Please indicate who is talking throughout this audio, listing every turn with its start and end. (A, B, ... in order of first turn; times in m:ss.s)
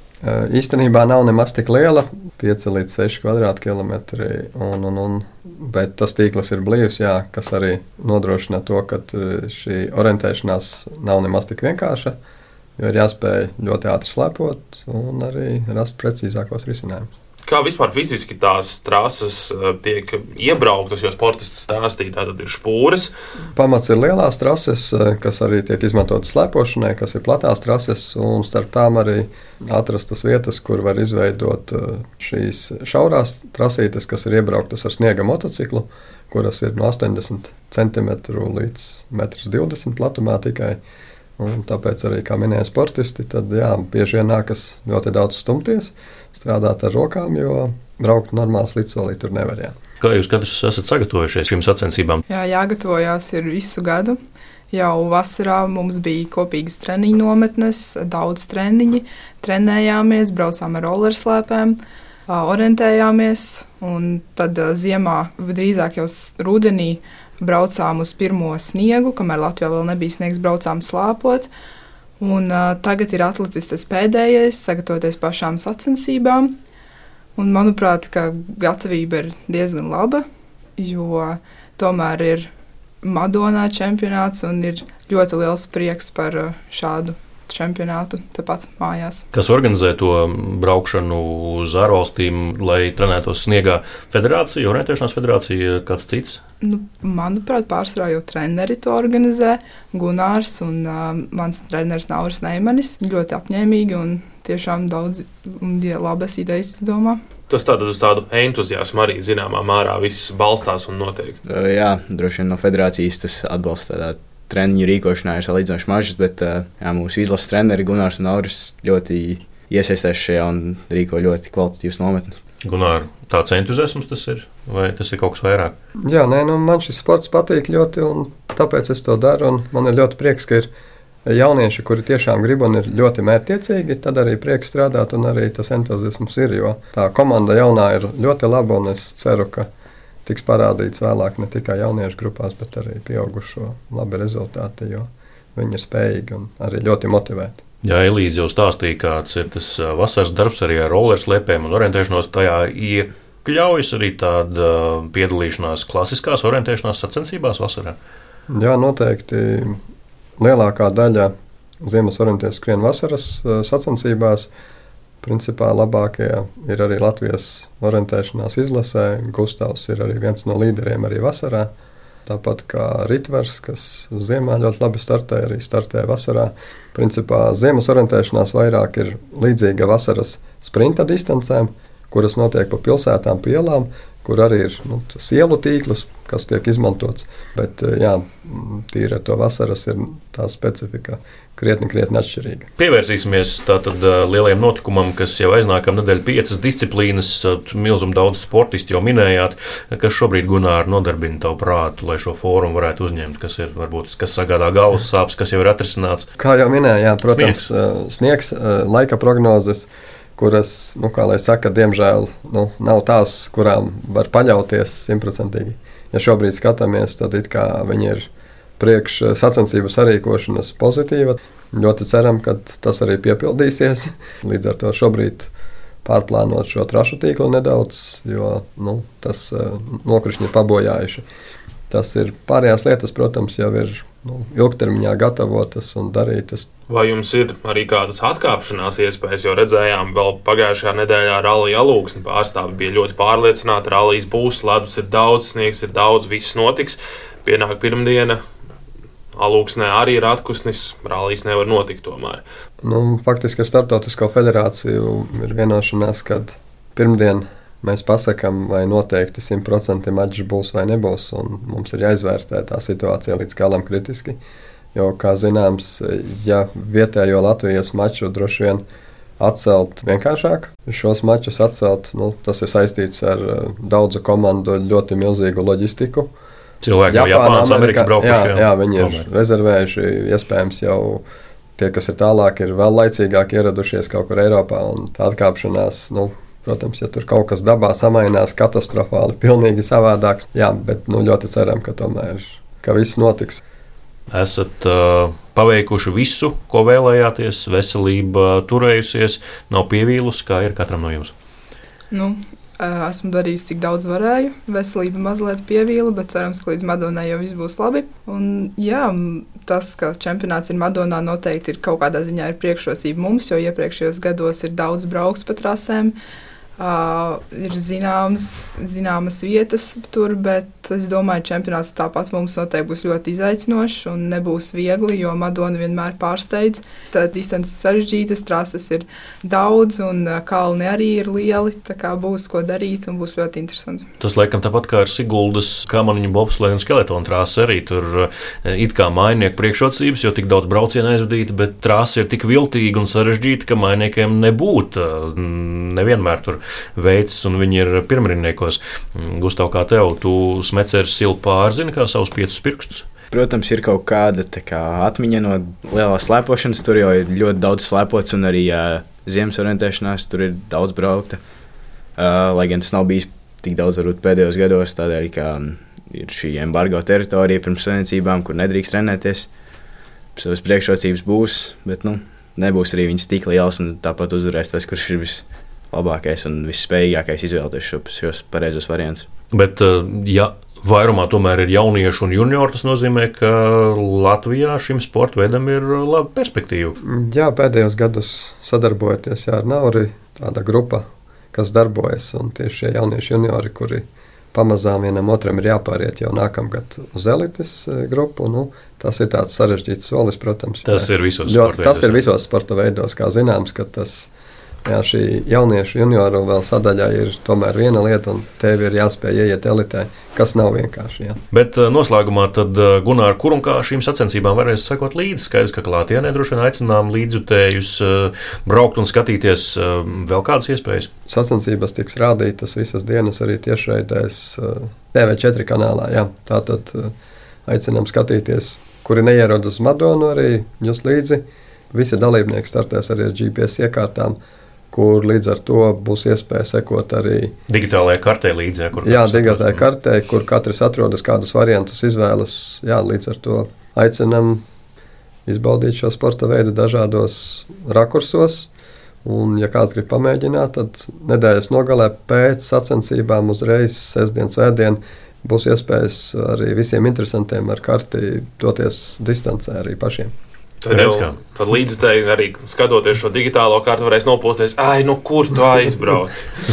0:00.2-0:12.2 A
0:12.8-0:17.1 A
0:17.4-0:23.1 B
0:23.5-0:40.8 A
0:41.4-0:49.8 A
0:50.0-0:52.2 C
0:52.3-0:54.2 D
0:54.7-1:11.5 D
1:12.2-1:16.5 D
1:17.4-1:20.2 D
1:20.8-1:22.5 D
1:23.0-1:29.2 D
1:29.3-1:36.4 C
1:36.6-1:47.2 D
1:47.5-1:51.4 B
1:51.4-2:02.4 E
2:02.6-2:05.7 C
2:06.0-2:10.7 A
2:11.2-2:19.7 A
2:20.2-2:27.6 A
2:27.8-2:38.0 C
2:38.5-2:39.8 A
2:40.4-2:44.5 A
2:45.2-2:51.7 A
2:52.2-3:12.7 A
3:12.8-3:26.3 C
3:26.4-3:38.3 A
3:27.3-3:27.6 C
3:38.8-3:45.5 A
3:46.0-3:51.2 A
3:51.9-3:56.7 A
3:56.9-4:08.4 B
4:09.4-4:12.4 B
4:12.8-4:24.4 A
4:24.9-4:28.8 A
4:29.4-4:36.3 A
4:36.8-4:39.2 C
4:37.1-4:41.2 A
4:41.8-4:53.6 A
4:54.3-5:01.3 C
5:02.1-5:16.1 D
5:16.8-5:34.1 D
5:34.2-5:53.1 C
5:53.3-6:01.4 E
6:02.2-6:09.5 E
6:10.4-6:19.3 E
6:19.5-6:27.0 C
6:27.0-6:44.3 A
6:40.8-6:42.2 C
6:44.8-6:51.4 A
6:51.5-7:01.1 C
7:01.3-7:07.1 A
7:07.6-7:14.4 A
7:14.9-7:17.5 A
7:17.7-7:19.8 C
7:19.0-7:24.6 A
7:25.4-7:28.7 A
7:29.2-7:40.3 A
7:40.8-7:46.5 B
7:40.9-7:41.4 C